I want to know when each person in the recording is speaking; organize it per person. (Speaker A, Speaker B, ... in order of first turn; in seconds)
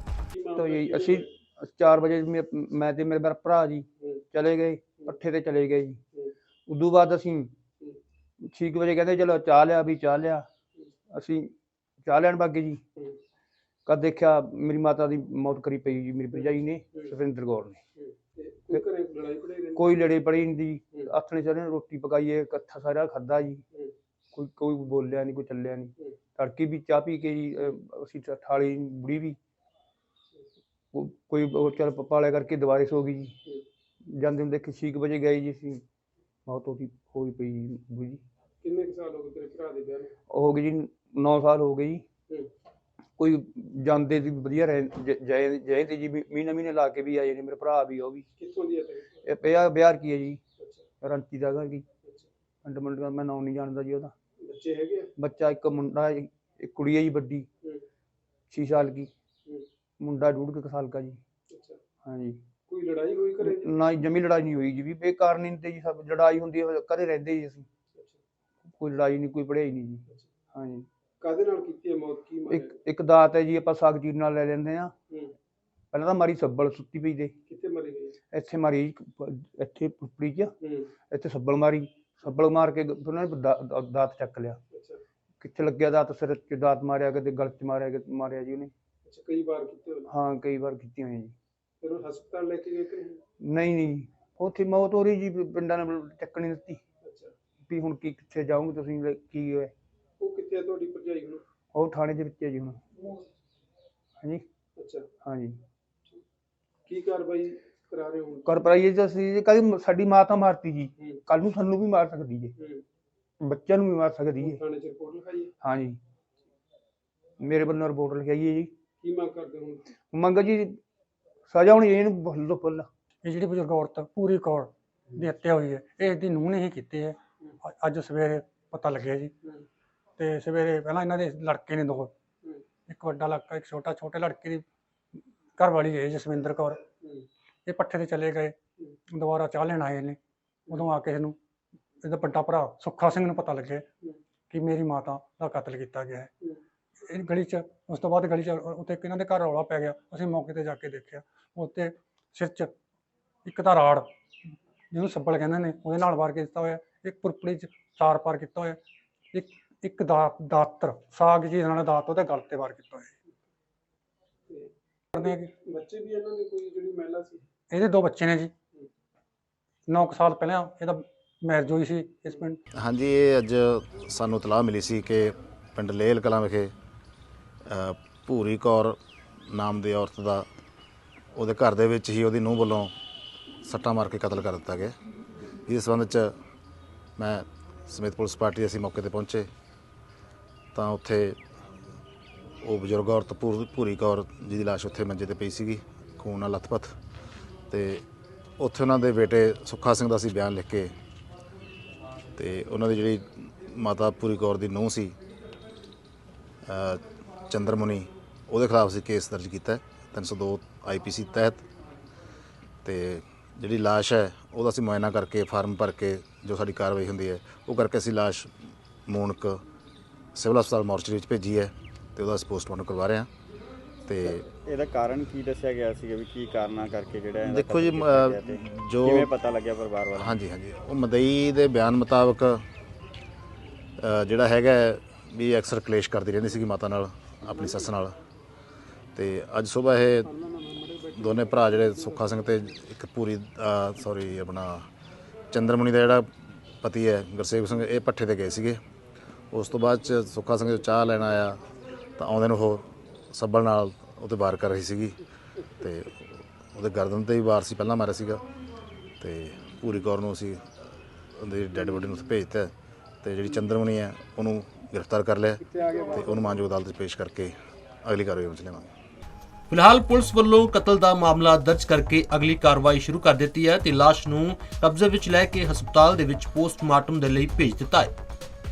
Speaker A: 0.3-1.3, 16.3-17.1, 18.0-19.9, 38.6-40.1, 48.4-49.1, 50.6-50.9, 52.0-52.3, 54.4-55.1, 61.5-61.8, 62.7-63.7, 67.9-68.2, 71.2-72.8, 77.5-78.2, 80.6-80.9, 84.7-85.0, 89.0-90.1, 91.8-93.2, 97.0-97.3, 100.2-101.4, 104.8-105.1, 106.9-108.5, 112.6-112.8, 114.4-115.5, 119.0-119.9, 164.5-167.5, 237.5-237.9, 240.2-242.7, 265.6-266.7
Speaker B: 0.6-6.0, 6.7-7.6, 8.4-10.5, 11.1-11.5, 12.1-12.8, 13.9-17.8, 19.7-23.6, 24.3-29.4, 30.9-33.4, 34.0-35.8, 36.5-38.2, 40.3-42.1, 43.2-48.3, 49.2-50.4, 51.0-51.9, 52.6-54.1, 55.2-57.5, 58.5-59.1, 60.0-61.2, 62.0-62.5, 63.4-67.7, 68.8-70.9, 72.5-75.0, 75.9-77.4, 78.3-80.5, 81.1-84.6, 85.4-88.7, 90.1-91.3, 93.4-96.8, 97.7-99.7, 101.7-103.2, 105.2-105.6, 108.4-112.5, 113.4-114.6, 115.6-116.0, 117.4-118.7, 120.0-120.8, 121.5-122.9
Speaker C: 123.2-129.3, 130.2-132.1, 132.9-134.6, 135.6-136.8, 137.7-138.6, 139.1-140.2, 140.7-141.4, 142.0-143.9, 144.5-146.3, 147.1-152.7, 153.4-154.1, 154.9-158.8, 159.3-163.2, 165.2-165.5, 167.7-168.5, 169.9-172.6
Speaker D: 172.8-176.7, 177.7-179.0, 179.5-180.5, 181.3-182.9, 183.6-184.9, 185.7-186.3, 187.2-189.5, 190.7-191.4, 192.6-196.9, 197.7-198.0, 198.6-200.9, 202.4-205.2, 206.7-211.7, 212.8-218.5, 219.1-219.6, 220.3-223.3, 224.1-224.4, 227.4-229.3, 230.2-232.7, 234.0-238.2, 239.2-240.3, 241.2-244.9, 245.5-248.8, 249.5-251.6, 252.2-255.2, 255.8-258.4, 259.2-260.6, 261.4-268.9
Speaker E: 224.2-230.4
Speaker F: 269.7-278.1